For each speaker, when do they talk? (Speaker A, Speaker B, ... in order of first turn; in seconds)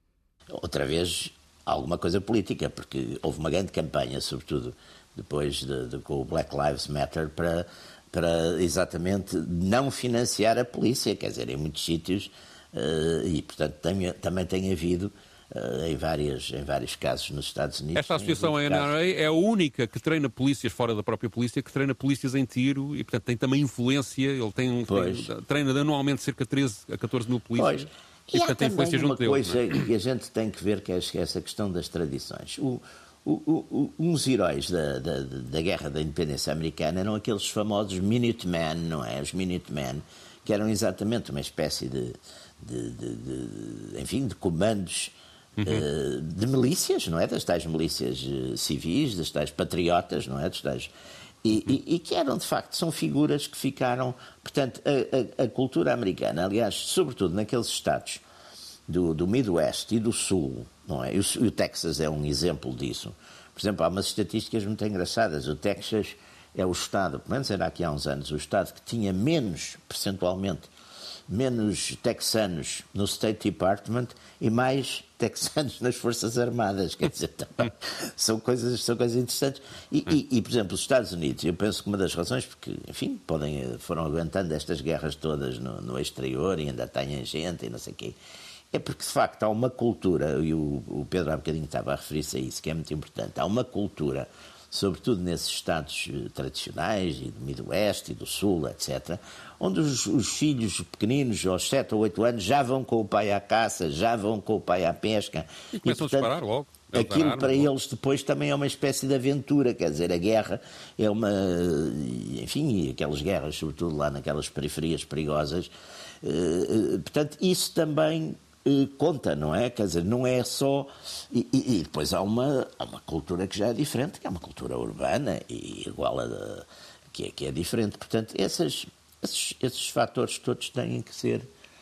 Speaker A: 0.5-18.9, 24.9-25.3, 27.6-50.9, 51.4-58.2, 58.9-70.7, 71.3-88.2, 88.7-106.3, 106.9-115.7, 116.2-131.5
Speaker B: 17.9-29.8, 45.6-45.9, 105.7-107.7